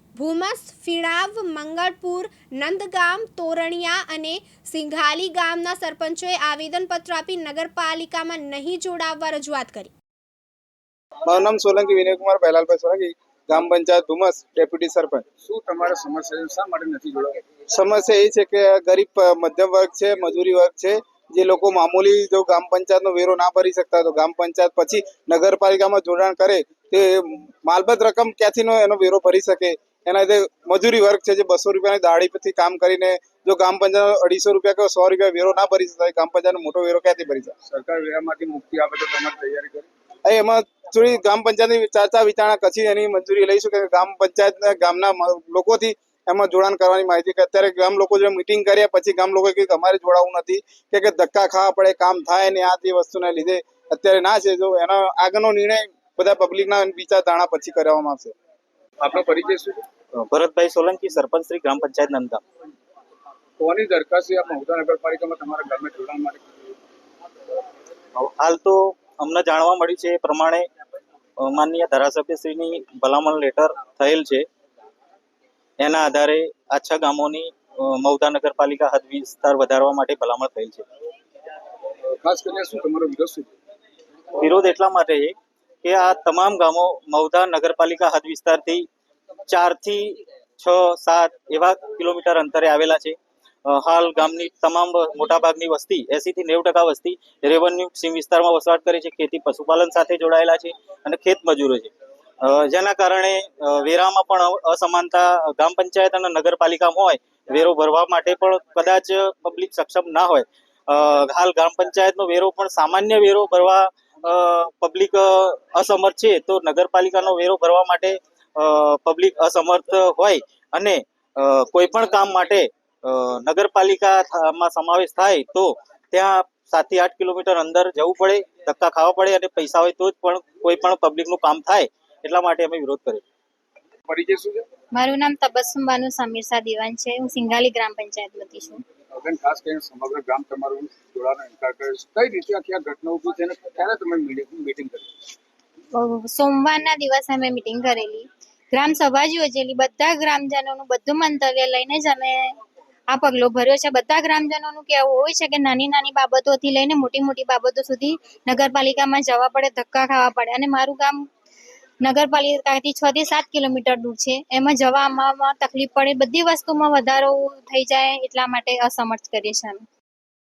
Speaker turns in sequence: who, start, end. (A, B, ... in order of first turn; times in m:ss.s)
0:00.2-0:09.9 A
0:11.3-0:15.2 B
0:15.4-0:17.4 C
0:17.7-0:37.5 B
0:37.6-0:39.9 C
0:40.3-0:58.3 B
0:59.0-0:59.8 C
1:00.2-1:02.4 D
1:03.6-1:06.8 C
1:08.2-1:10.6 D
1:11.4-1:14.5 D
1:15.8-1:20.8 D
1:22.1-1:23.5 C
1:24.4-1:28.9 D
1:29.5-2:13.2 D
2:14.1-2:14.7 C
2:15.0-2:18.8 E
2:19.1-2:25.1 C
2:26.0-2:32.6 E
2:33.1-2:41.2 E
2:42.0-2:49.8 E